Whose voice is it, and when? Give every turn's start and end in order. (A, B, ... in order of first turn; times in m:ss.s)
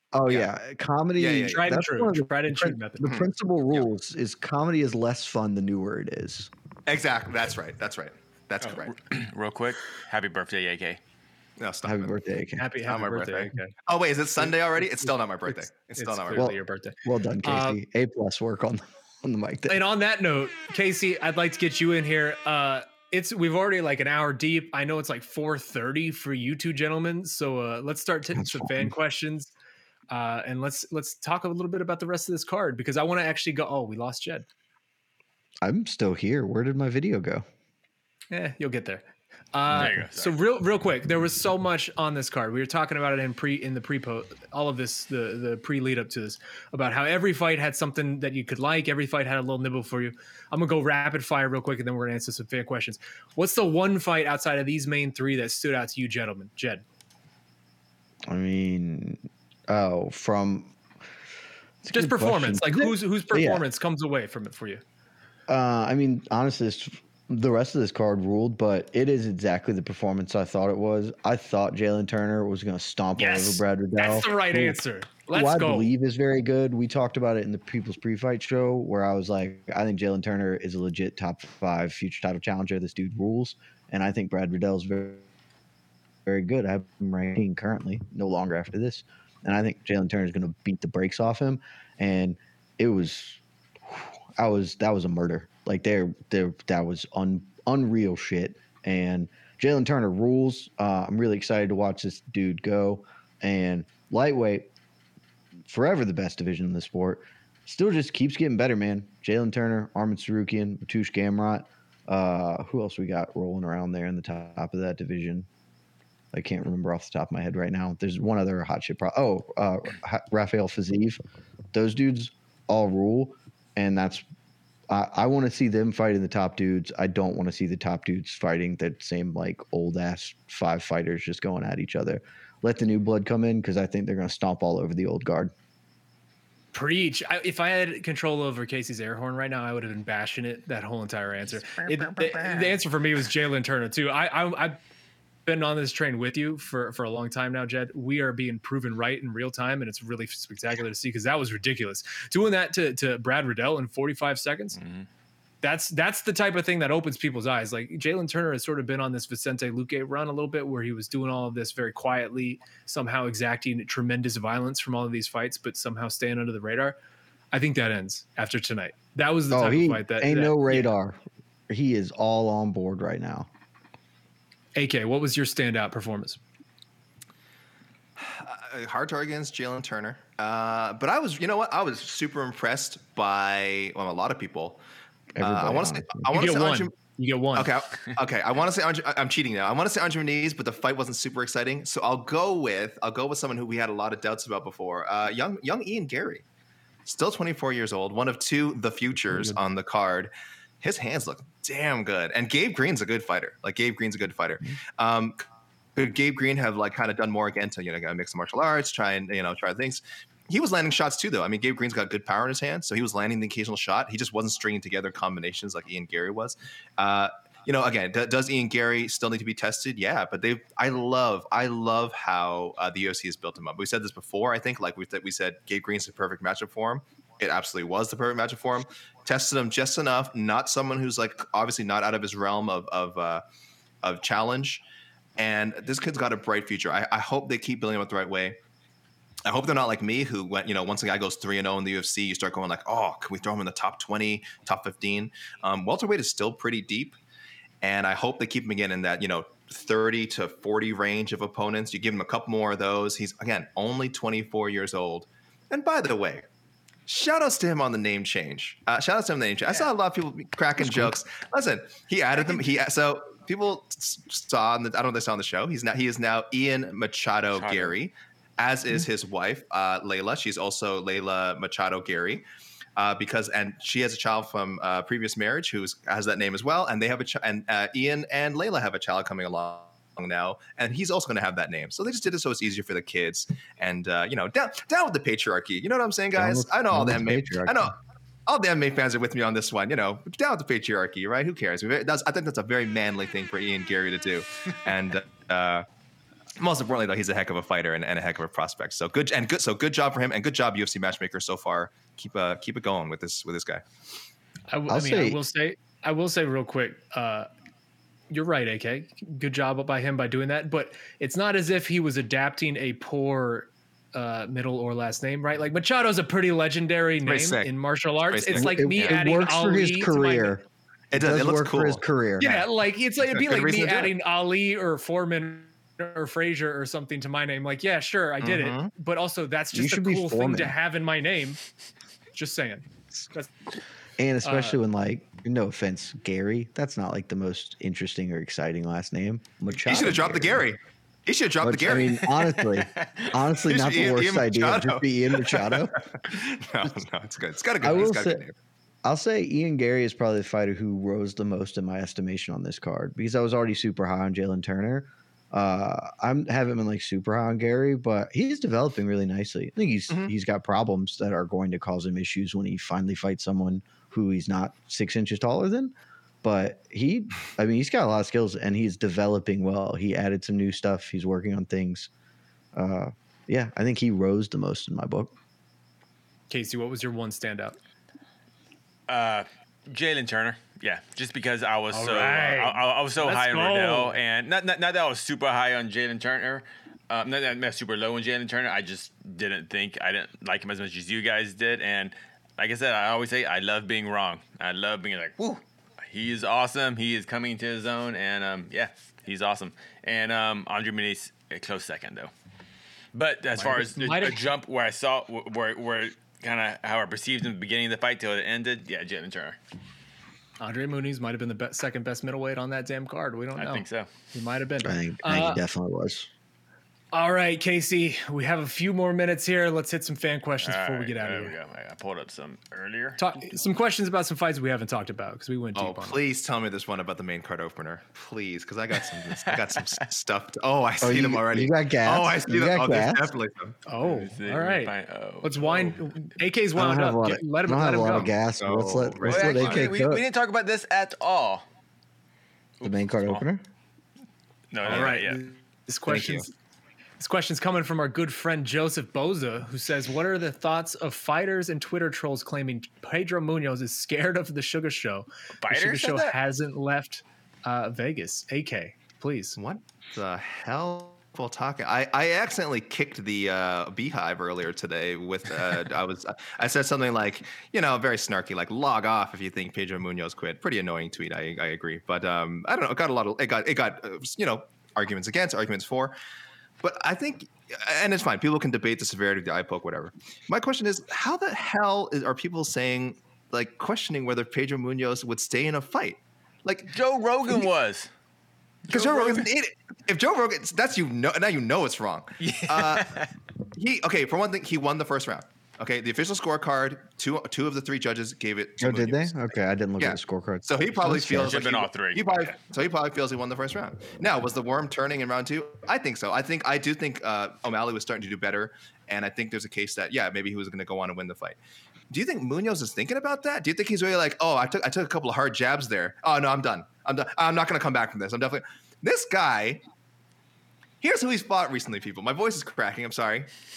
0:00.1-0:06.5 A
0:00.2-0:00.5 B
0:01.2-0:01.6 B
0:01.4-0:03.1 C
0:03.0-0:03.8 B
0:06.9-0:08.9 B
0:08.7-0:11.0 D
0:11.6-0:12.2 B
0:11.8-0:12.6 A
0:12.6-0:13.7 C
0:12.8-0:16.5 B
0:15.0-0:17.8 C
0:16.3-0:19.8 A
0:19.7-0:29.5 C
0:28.3-0:28.9 A
0:30.1-0:34.4 C
0:35.6-0:37.4 A
0:38.3-0:56.8 C
0:39.7-0:40.4 D
0:58.3-1:00.7 A
1:01.8-1:03.6 A
1:01.9-1:04.8 C
1:05.5-1:14.8 A
1:13.2-1:15.9 C
1:15.3-1:25.2 A
1:26.2-1:44.7 A
1:45.7-1:55.5 A
1:56.3-2:01.2 A
2:01.7-2:04.3 A
2:04.9-2:15.5 A
2:16.7-2:24.8 C
2:25.4-2:34.8 C
2:34.8-2:35.0 D
2:35.6-2:47.0 C
2:47.5-2:50.9 C
2:49.5-2:53.5 A
2:54.8-2:56.4 C
2:58.2-3:04.8 B
3:05.3-3:06.2 A
3:05.4-3:06.9 B
3:06.3-3:07.7 C
3:07.5-3:16.4 B
3:17.0-3:25.4 B
3:26.0-3:53.4 B
3:54.0-3:54.8 B
3:55.4-3:58.6 B
3:59.4-4:07.2 B
4:07.8-4:16.5 B
4:17.1-4:32.4 B
4:20.8-4:21.2 A
4:27.5-4:28.0 D
4:33.0-4:55.8 B
4:46.3-4:47.9 A
4:56.6-5:03.8 B
5:04.7-5:07.5 C
5:04.9-5:05.4 A
5:08.3-5:20.5 C
5:17.2-5:19.2 B
5:18.5-5:22.6 A
5:21.1-5:22.0 B
5:22.4-5:31.6 C
5:23.3-5:24.1 B
5:28.4-5:28.9 B
5:29.7-5:30.8 A
5:32.3-5:33.5 C
5:34.2-5:40.6 A
5:34.4-5:34.8 C
5:39.7-5:42.3 B
5:41.6-5:46.0 A
5:42.9-5:43.3 D
5:43.6-5:48.5 B
5:47.8-5:48.4 A
5:49.0-6:12.1 A
6:12.7-6:15.3 A
6:16.5-6:17.8 C
6:19.1-6:42.3 D
6:21.9-6:24.2 C
6:43.1-6:49.6 D
6:43.6-6:44.4 C
6:50.6-6:55.6 C
6:53.6-6:54.1 D
6:54.8-6:56.3 A
6:57.1-7:01.6 C
7:00.6-7:03.5 D
7:03.2-7:06.2 C
7:05.7-7:13.8 B
7:09.2-7:10.0 D
7:11.0-7:13.3 A
7:13.8-7:18.3 C
7:14.0-7:16.2 D
7:16.7-7:20.2 A
7:18.6-7:19.9 B
7:19.2-7:21.6 D
7:22.8-7:23.4 D
7:22.8-7:23.6 A
7:24.7-7:25.4 D
7:24.8-7:26.5 C
7:24.9-7:25.1 B
7:26.1-7:26.5 B
7:27.2-7:39.6 C
7:35.6-7:36.4 D
7:39.6-7:56.1 B
7:56.8-8:06.9 B
8:06.9-8:08.1 D
8:08.9-8:09.5 D
8:08.9-8:13.2 B
8:12.4-8:13.3 D
8:13.7-8:19.4 B
8:18.8-8:21.6 A
8:20.0-8:31.6 B
8:21.4-8:22.6 D
8:32.1-8:39.8 B
8:41.0-8:43.5 B